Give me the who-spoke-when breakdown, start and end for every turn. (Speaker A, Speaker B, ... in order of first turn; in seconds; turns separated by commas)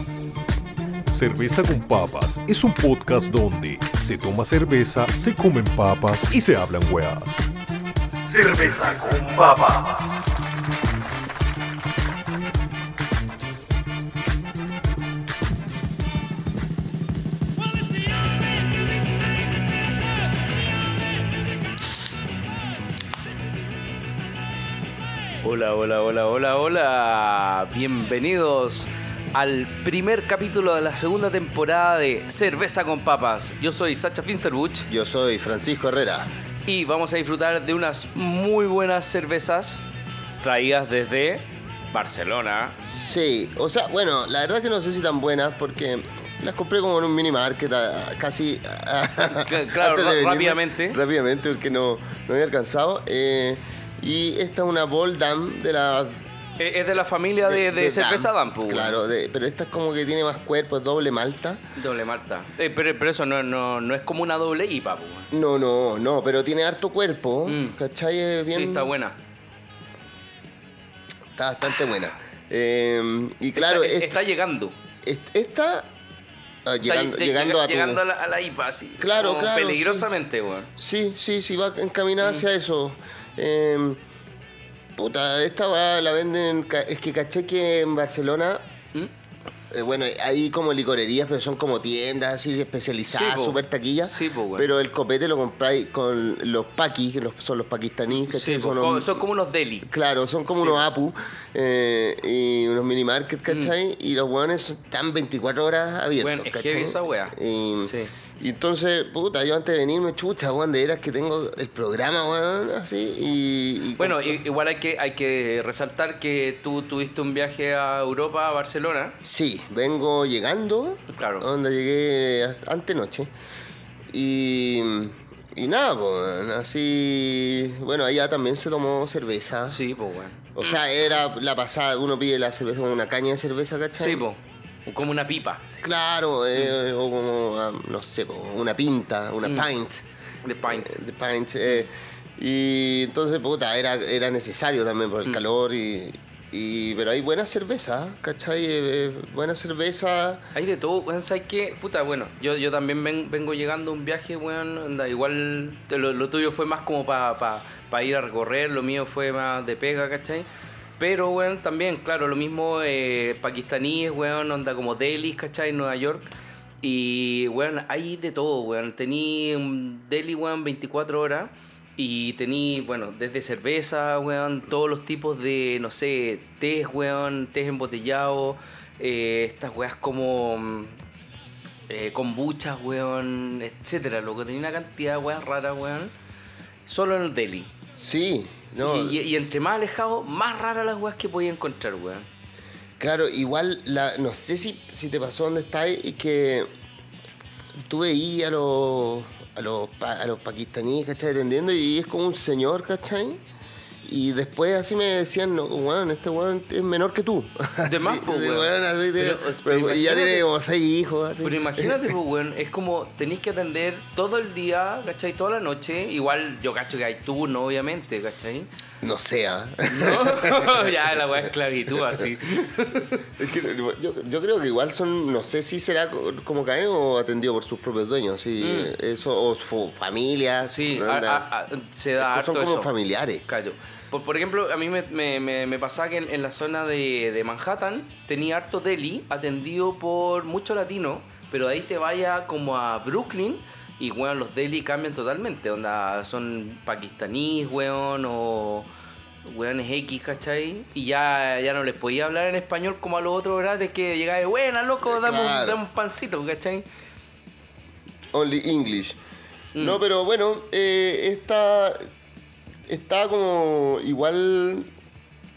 Speaker A: 1.1-7.5, Speaker A: 8.2-10.4, Speaker B: 25.4-34.9, Speaker C: 34.9-36.3, Speaker B: 36.7-39.8, Speaker B: 40.4-42.8, Speaker C: 42.9-56.2, Speaker B: 49.3-51.0, Speaker B: 56.6-59.0, Speaker C: 57.5-61.6, Speaker B: 61.8-65.3, Speaker C: 65.3-68.9, Speaker B: 67.5-67.8, Speaker B: 68.5-69.2, Speaker C: 71.4-74.1, Speaker B: 73.5-74.8, Speaker C: 75.0-75.9, Speaker C: 76.7-78.0, Speaker B: 76.8-80.7, Speaker C: 79.0-80.1, Speaker C: 80.8-84.0, Speaker C: 85.0-88.6, Speaker C: 89.7-99.2, Speaker B: 93.1-94.7, Speaker B: 98.2-99.9, Speaker C: 99.8-114.4, Speaker B: 100.5-100.9, Speaker B: 103.5-103.7, Speaker B: 106.2-108.1, Speaker B: 114.0-119.2, Speaker C: 119.2-123.3, Speaker B: 121.1-121.5, Speaker C: 124.1-129.8, Speaker B: 129.7-130.7, Speaker C: 130.6-134.2, Speaker B: 133.9-135.6, Speaker C: 135.8-140.1, Speaker B: 140.4-141.0, Speaker C: 140.7-150.4, Speaker B: 150.5-160.5, Speaker B: 161.0-181.0, Speaker B: 181.9-186.1, Speaker B: 186.9-187.7, Speaker C: 188.0-189.2, Speaker B: 188.8-192.3, Speaker C: 193.0-196.7, Speaker C: 197.9-203.4, Speaker C: 204.0-212.2, Speaker B: 207.8-210.4, Speaker B: 211.4-218.7, Speaker C: 219.0-221.4, Speaker B: 219.9-223.2, Speaker C: 222.0-222.3, Speaker C: 223.3-231.5, Speaker B: 228.6-228.9, Speaker B: 230.6-232.9, Speaker C: 232.2-233.4, Speaker B: 233.5-248.9, Speaker B: 249.4-256.9, Speaker C: 255.0-255.8, Speaker C: 258.3-259.2, Speaker B: 259.8-260.0, Speaker C: 259.8-262.0, Speaker C: 262.9-264.9